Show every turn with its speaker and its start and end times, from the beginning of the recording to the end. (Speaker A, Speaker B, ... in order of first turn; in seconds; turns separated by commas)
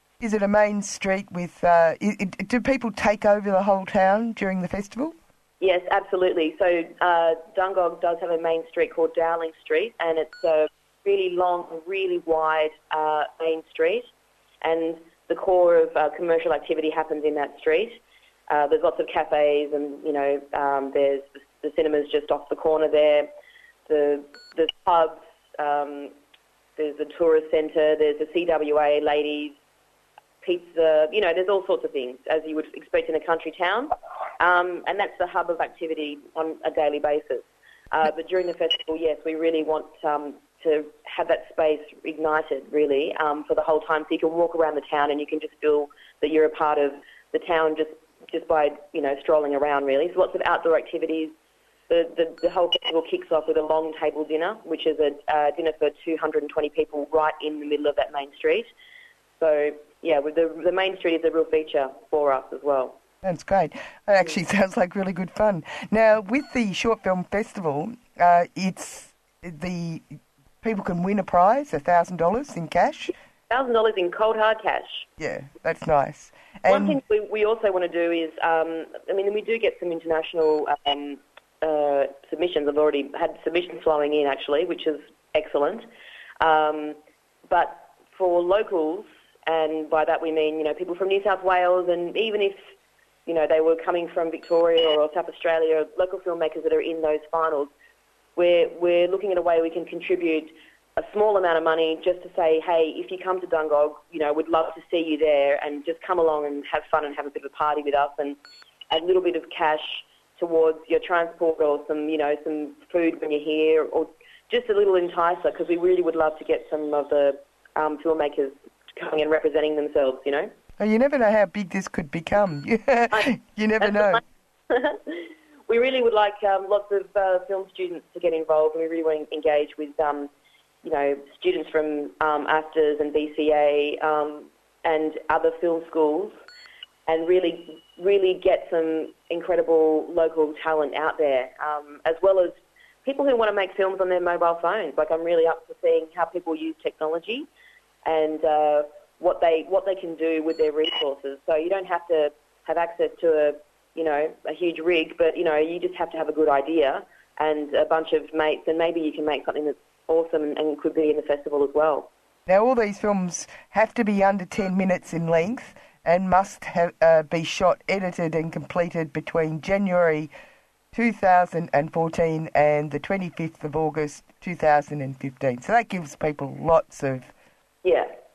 Speaker A: 0.2-5.1, Speaker B: 5.6-14.1, Speaker B: 14.6-23.3, Speaker B: 23.9-26.1, Speaker B: 26.8-29.6, Speaker B: 30.4-51.3, Speaker B: 51.9-58.7, Speaker B: 59.4-63.0, Speaker A: 63.2-73.1, Speaker B: 73.5-75.1, Speaker A: 75.2-77.0, Speaker B: 76.7-85.9, Speaker B: 86.4-92.7, Speaker B: 93.2-97.7, Speaker B: 98.3-108.4, Speaker B: 108.9-120.5, Speaker A: 120.8-124.2, Speaker B: 123.1-130.3, Speaker B: 130.8-136.4, Speaker B: 137.1-147.5, Speaker B: 148.0-162.1, Speaker A: 162.5-170.3, Speaker A: 170.9-177.3, Speaker B: 177.8-178.1